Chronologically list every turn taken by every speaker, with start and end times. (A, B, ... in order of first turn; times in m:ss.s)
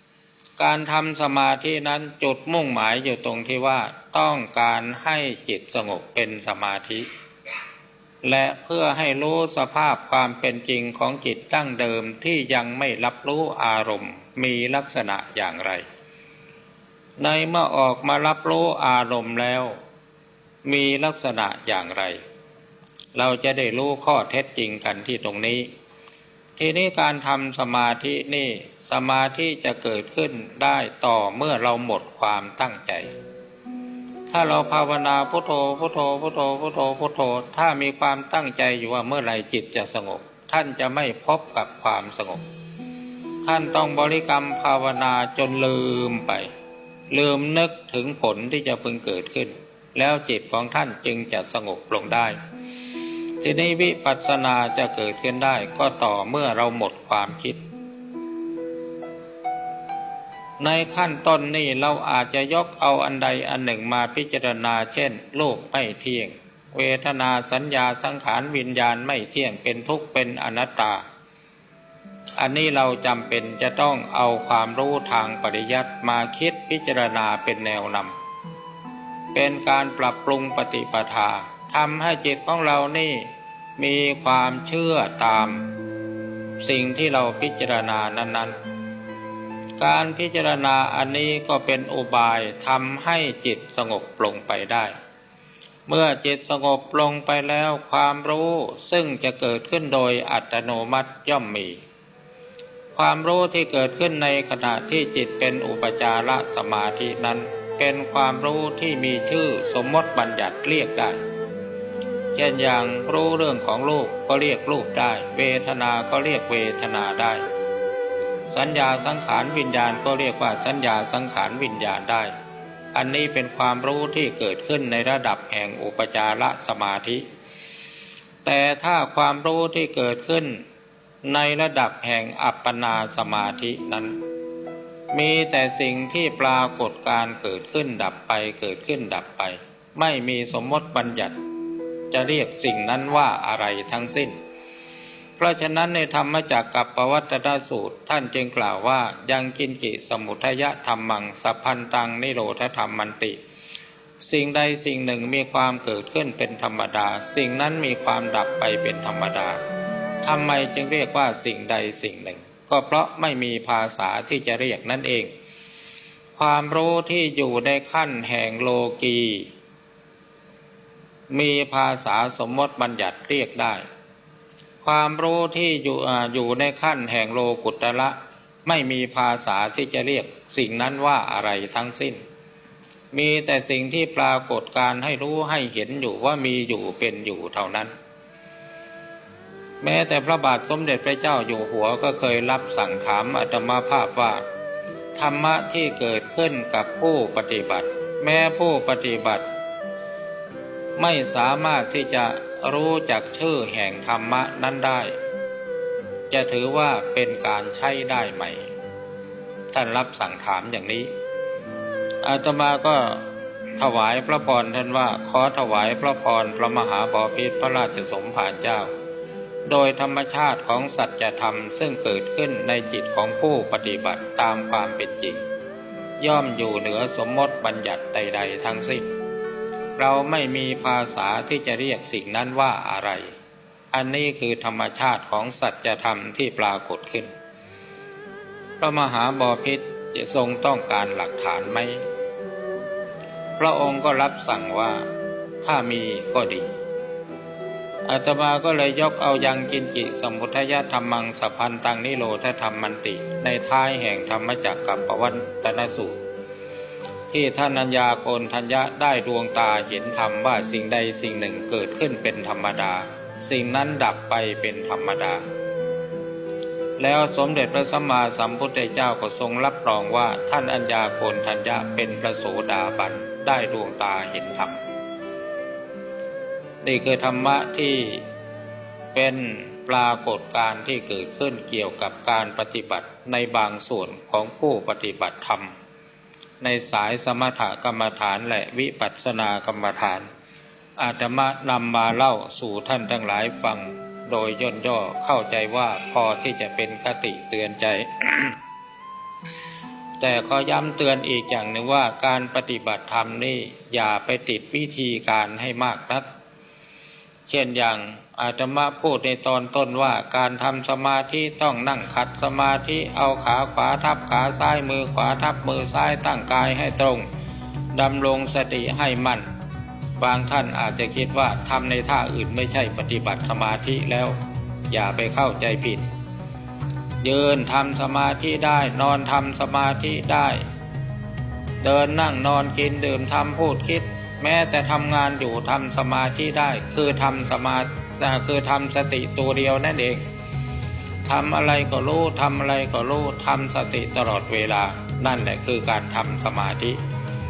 0:00.6-0:07.0 A
0:08.2-0:15.8 A
0:17.2-0:19.8 A
0:20.6-0:22.2 A
0:23.1-0:25.7 A
0:26.6-0:33.1 A
0:34.3-0:42.4 A
0:43.4-0:46.5 A
0:47.1-0:52.4 A
0:53.4-0:57.6 A
1:00.6-1:11.0 A
1:12.4-1:18.1 A
1:19.3-1:25.7 A
1:26.6-1:28.6 A
1:29.8-1:34.9 A
1:35.9-1:41.8 A
1:42.9-1:51.2 A
1:52.3-1:57.4 A
1:58.5-2:02.3 A
2:02.9-2:07.2 A
2:08.4-2:10.6 A
2:11.2-2:14.2 A
2:15.1-2:21.4 A
2:22.1-2:24.3 A
2:25.4-2:33.4 A
2:34.2-2:39.6 A
2:40.2-2:45.3 A
2:46.4-2:49.5 A
2:51.3-2:53.8 A
2:54.8-3:02.2 A
3:03.1-3:07.9 A
3:09.8-3:14.4 A
3:15.1-3:19.4 A
3:21.0-3:25.1 A
3:26.3-3:28.7 A
3:29.7-3:31.1 A
3:32.2-3:33.2 A
3:33.8-3:38.9 A
3:39.7-3:45.4 A
3:46.2-3:49.1 A
3:50.0-3:53.3 A
3:53.9-3:57.3 A
3:58.8-4:02.0 A
4:03.6-4:05.0 A
4:05.6-4:06.7 A
4:08.0-4:16.2 A
4:17.3-4:25.4 A
4:27.0-4:34.8 A
4:36.8-4:38.2 A
4:39.1-4:45.7 A
4:46.6-4:50.3 A
4:51.0-4:58.6 A
5:00.2-5:06.2 A
5:07.5-5:17.2 A
5:17.9-5:19.4 A
5:20.2-5:24.4 A
5:24.9-5:26.0 A
5:27.2-5:30.6 A
5:31.8-5:40.2 A
5:41.2-5:47.0 A